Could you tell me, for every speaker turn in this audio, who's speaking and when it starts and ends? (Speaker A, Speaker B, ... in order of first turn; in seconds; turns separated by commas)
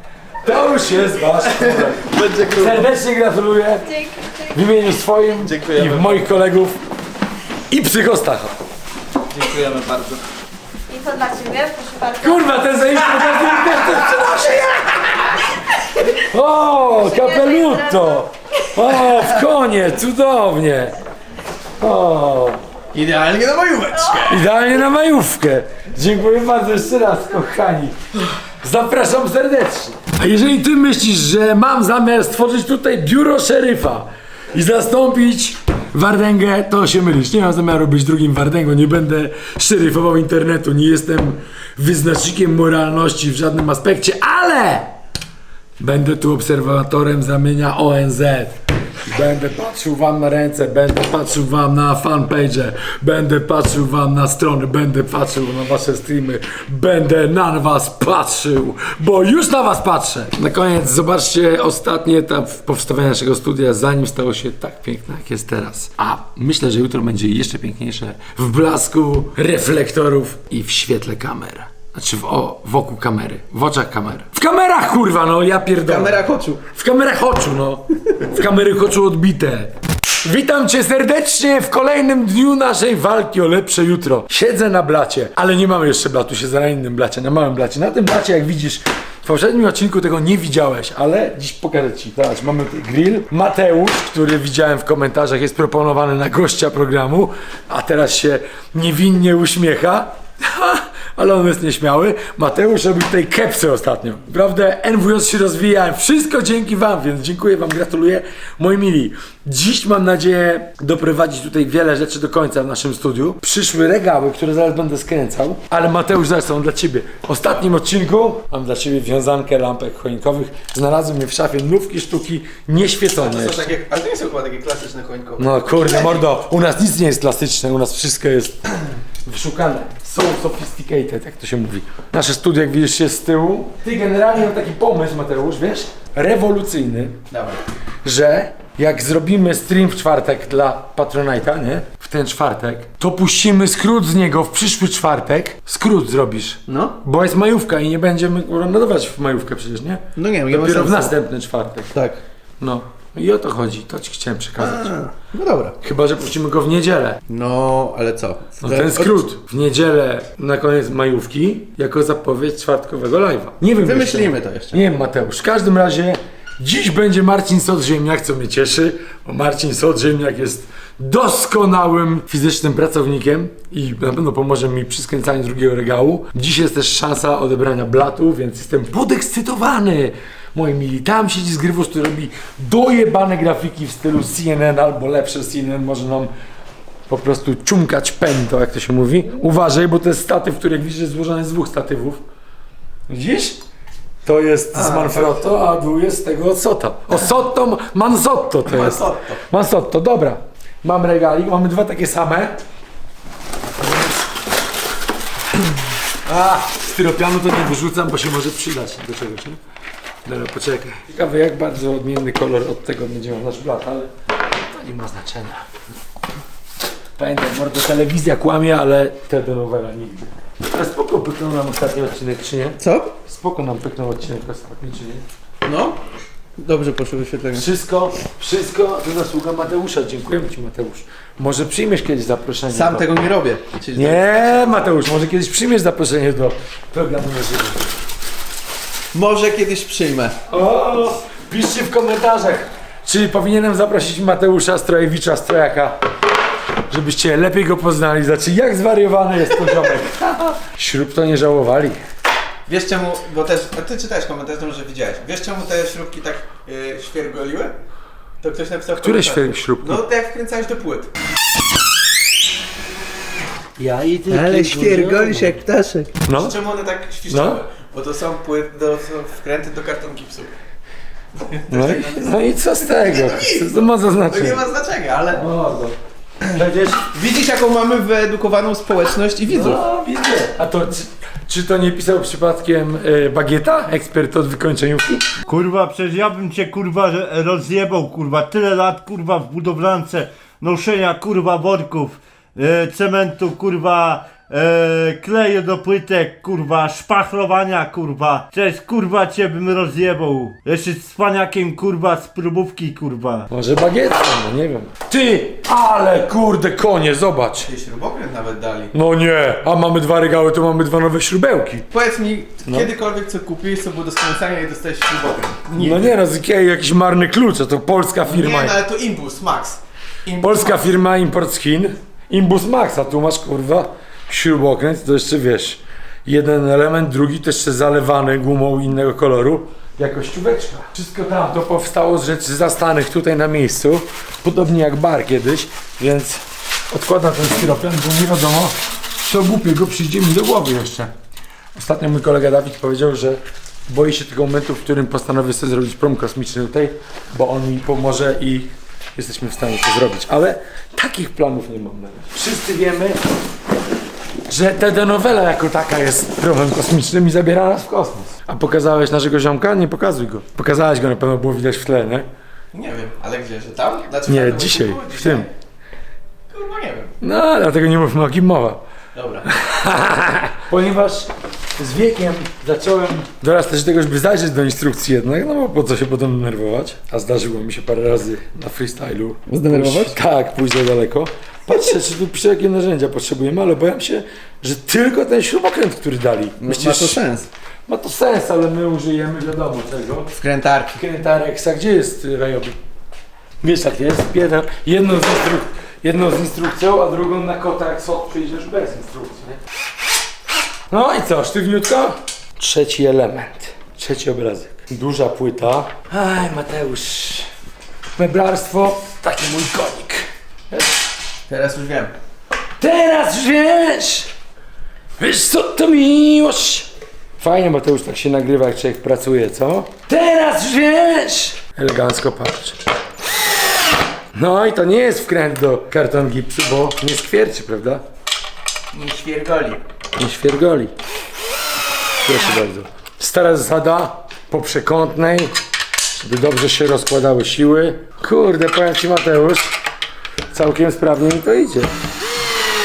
Speaker A: 0.4-6.8, Speaker B: 1.6-2.9, Speaker C: 3.9-4.4, Speaker B: 5.4-6.2, Speaker A: 7.7-8.5, Speaker B: 9.3-10.2, Speaker C: 10.9-12.7, Speaker A: 12.2-15.1, Speaker A: 16.1-21.0, Speaker C: 17.0-18.2, Speaker A: 21.8-22.6, Speaker B: 22.9-24.4, Speaker A: 24.3-27.9, Speaker A: 28.6-44.9, Speaker A: 45.8-48.5, Speaker A: 49.1-79.7, Speaker B: 75.8-76.6, Speaker A: 80.2-123.7, Speaker B: 123.2-126.3, Speaker A: 125.4-128.6, Speaker A: 129.2-137.2, Speaker B: 137.3-137.6, Speaker A: 138.0-151.9, Speaker B: 146.7-146.9, Speaker B: 150.2-151.2, Speaker B: 151.9-152.2, Speaker A: 152.6-154.9, Speaker B: 154.6-155.8, Speaker A: 155.8-157.2, Speaker B: 157.3-159.2, Speaker A: 158.6-186.3, Speaker B: 163.8-164.8, Speaker A: 187.1-192.2, Speaker A: 193.1-193.6, Speaker A: 194.2-202.6, Speaker B: 194.7-195.4, Speaker B: 198.7-199.4, Speaker A: 206.2-209.6, Speaker A: 210.2-214.1, Speaker A: 214.7-215.7, Speaker A: 217.2-225.2, Speaker B: 222.8-223.1, Speaker B: 225.6-226.0, Speaker B: 226.6-227.7, Speaker A: 227.5-233.1, Speaker B: 232.7-234.8, Speaker A: 233.9-237.9, Speaker B: 239.1-240.3, Speaker A: 240.5-246.0, Speaker A: 246.9-252.0, Speaker B: 252.7-257.7, Speaker B: 258.4-261.1, Speaker A: 259.0-260.0, Speaker A: 263.8-265.5, Speaker B: 264.3-270.5, Speaker A: 266.2-266.6, Speaker A: 267.3-267.6, Speaker B: 271.4-275.4, Speaker A: 271.7-274.6, Speaker A: 275.3-275.9, Speaker A: 276.5-277.0, Speaker B: 277.1-279.8, Speaker A: 279.5-285.3, Speaker D: 285.5-303.4, Speaker A: 303.5-307.7, Speaker B: 307.7-308.9, Speaker A: 308.9-311.8, Speaker B: 311.9-316.1, Speaker A: 315.7-318.8, Speaker B: 318.2-320.9, Speaker A: 320.4-341.1, Speaker A: 341.7-353.2, Speaker A: 354.5-362.3, Speaker B: 362.7-365.5, Speaker A: 364.3-365.5, Speaker B: 366.5-367.1, Speaker A: 367.2-368.8, Speaker B: 369.1-369.5, Speaker A: 369.5-387.2, Speaker B: 379.5-380.1, Speaker B: 386.6-387.5, Speaker A: 387.9-390.3, Speaker B: 390.4-391.0, Speaker A: 390.9-392.8, Speaker A: 393.6-399.6, Speaker A: 400.9-407.5, Speaker A: 408.2-411.0, Speaker B: 411.5-412.1, Speaker A: 412.8-414.3, Speaker A: 415.2-422.8, Speaker A: 424.3-428.0, Speaker B: 428.9-429.8, Speaker A: 430.2-430.9, Speaker A: 432.2-435.5, Speaker A: 436.2-439.7, Speaker A: 440.5-441.9